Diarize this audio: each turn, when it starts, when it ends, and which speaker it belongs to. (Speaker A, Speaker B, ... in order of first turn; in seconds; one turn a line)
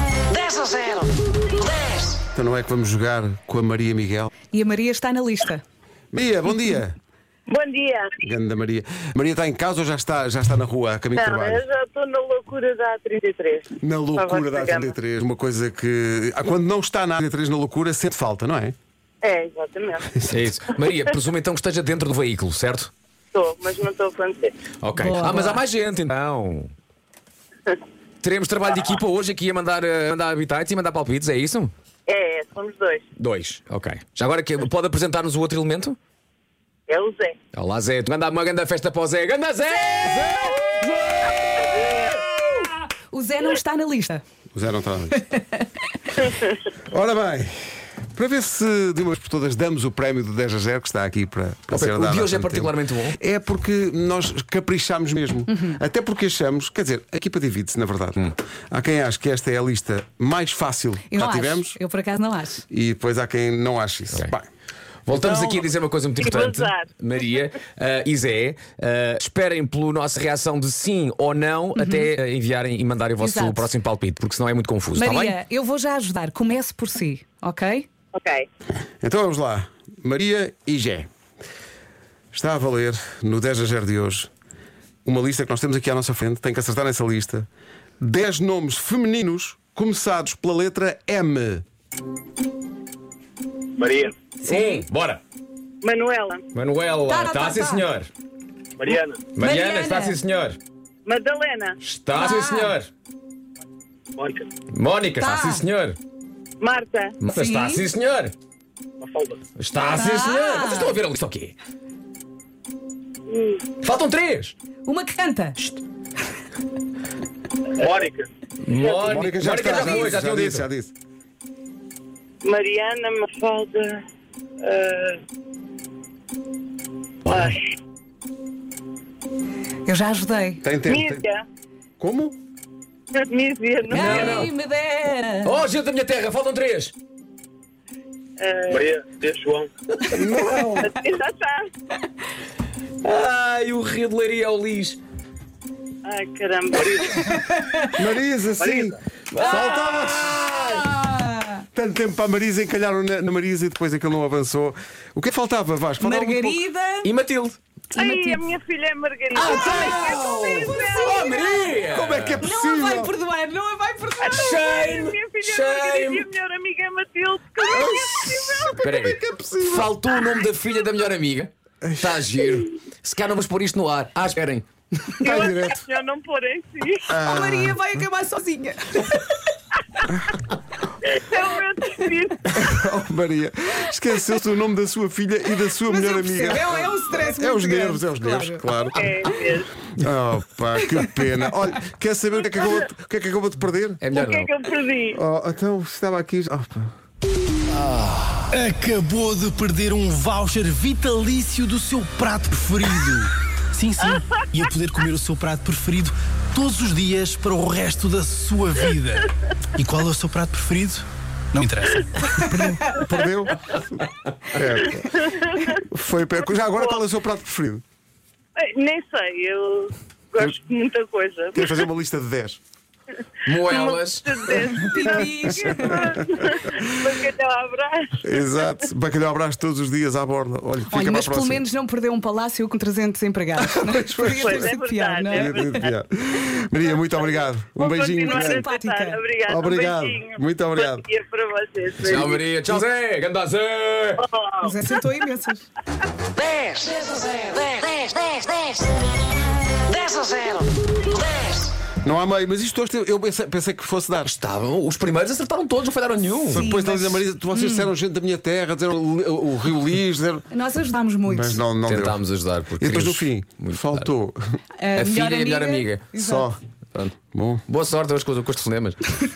Speaker A: 0.2-2.1
Speaker B: 2.3-4.3
Speaker C: 4.5-5.6
Speaker B: 6.1-7.0
Speaker D: 7.5-8.2
Speaker B: 8.2-11.6
Speaker D: 11.2-15.0
Speaker B: 13.8-18.8
Speaker D: 19.2-20.1
Speaker B: 20.2-20.5
Speaker E: 20.3-22.9
Speaker D: 23.3-24.6
Speaker E: 24.8-26.7
Speaker C: 25.0-25.6
Speaker E: 28.2-31.7
Speaker D: 32.1-33.0
Speaker E: 33.2-36.0
Speaker D: 36.9-37.4
Speaker E: 37.5-41.9
Speaker D: 41.5-42.0
Speaker C: 42.1-44.2
Speaker B: 44.5-45.2
Speaker C: 45.2-45.6
Speaker B: 46.7-61.8
Speaker E: 51.7-53.2
Speaker C: 61.1-62.6
Speaker B: 62.7-64.5
Speaker E: 65.1-75.4
Speaker B: 65.1-65.7
Speaker D: 66.2-66.9
Speaker C: 71.8-72.1
Speaker C: 73.2-73.7
Speaker C: 75.0-77.9
Speaker D: 78.2-78.5
Speaker B: 79.0-81.1
Speaker B: 82.3-84.3
Speaker B: 85.0-87.5
Speaker B: 88.0-91.7
Speaker F: 93.8-94.1
Speaker C: 94.4-94.8
Speaker E: 94.5-95.2
Speaker D: 95.8-96.4
Speaker E: 96.5-98.1
Speaker C: 97.1-97.8
Speaker F: 98.8-99.2
Speaker E: 99.3-100.6
Speaker C: 99.4-100.2
Speaker D: 101.1-101.8
Speaker E: 101.8-102.9
Speaker C: 102.1-102.8
Speaker F: 104.2-104.5
Speaker E: 104.7-106.0
Speaker C: 105.2-105.7
Speaker D: 106.6-107.2
Speaker E: 107.2-108.3
Speaker C: 107.3-107.8
Speaker F: 109.0-109.3
Speaker E: 109.6-111.5
Speaker C: 109.9-111.0
Speaker D: 113.3-113.7
Speaker E: 113.8-114.5
Speaker C: 114.8-115.6
Speaker F: 117.8-118.3
Speaker E: 118.6-120.7
Speaker D: 118.8-119.1
Speaker B: 119.0-120.9
Speaker D: 119.6-120.0
Speaker D: 122.4-124.0
Speaker D: 124.6-125.2
Speaker D: 127.2-127.6
Speaker C: 129.9-130.6
Speaker B: 130.6-131.2
Speaker D: 130.9-131.5
Speaker B: 132.0-132.4
Speaker D: 133.2-134.5
Speaker E: 133.9-134.5
Speaker C: 133.9-135.6
Speaker E: 135.4-136.9
Speaker D: 138.4-138.9
Speaker F: 138.7-139.7
Speaker B: 140.1-141.0
Speaker D: 140.8-141.7
Speaker E: 143.0-145.0
Speaker D: 146.1-147.3
Speaker C: 147.1-147.9
Speaker B: 147.9-150.8
Speaker E: 149.3-150.9
Speaker D: 149.4-149.9
Speaker C: 150.6-151.7
Speaker B: 151.7-156.7
Speaker C: 156.0-157.1
Speaker E: 157.0-157.6
Speaker C: 157.9-158.4
Speaker D: 157.9-161.3
Speaker E: 159.3-162.4
Speaker C: 159.4-161.8
Speaker B: 161.9-163.1
Speaker C: 162.4-164.6
Speaker D: 164.2-168.8
Speaker E: 164.3-166.3
Speaker B: 167.7-170.0
Speaker E: 168.8-174.7
Speaker B: 171.8-172.2
Speaker B: 175.2-175.8
Speaker D: 175.2-177.1
Speaker B: 177.1-177.8
Speaker C: 177.3-179.2
Speaker B: 180.1-180.4
Speaker D: 181.0-182.6
Speaker B: 182.5-189.0
Speaker C: 185.9-188.7
Speaker D: 188.9-189.8
Speaker B: 189.9-194.0
Speaker C: 191.0-191.2
Speaker E: 194.0-194.5
Speaker D: 194.1-195.2
Speaker B: 195.1-196.9
Speaker E: 197.7-198.5
Speaker G: 198.5-212.6
Speaker B: 212.4-217.8
Speaker D: 215.0-215.8
Speaker D: 216.8-217.0
Speaker D: 218.6-221.7
Speaker B: 221.6-222.6
Speaker E: 223.4-224.5
Speaker D: 223.6-228.4
Speaker C: 224.7-226.1
Speaker B: 225.8-226.2
Speaker B: 228.2-231.7
Speaker C: 230.9-235.8
Speaker B: 233.6-234.7
Speaker D: 234.4-235.9
Speaker B: 235.3-238.7
Speaker D: 237.0-242.4
Speaker C: 237.9-239.2
Speaker B: 239.5-241.0
Speaker E: 242.0-244.2
Speaker D: 244.2-244.7
Speaker C: 244.6-245.7
Speaker A: 246.3-248.9
Speaker E: 246.7-247.8
Speaker A: 249.7-251.7
Speaker B: 252.0-254.3
Speaker E: 254.2-256.7
Speaker B: 256.5-260.5
Speaker C: 256.6-257.9
Speaker C: 260.5-261.6
Speaker B: 261.3-262.2
Speaker E: 261.9-264.1
Speaker B: 262.8-264.4
Speaker C: 264.8-266.5
Speaker E: 265.0-266.1
Speaker B: 266.2-266.6
Speaker B: 267.3-267.6
Speaker E: 267.7-269.0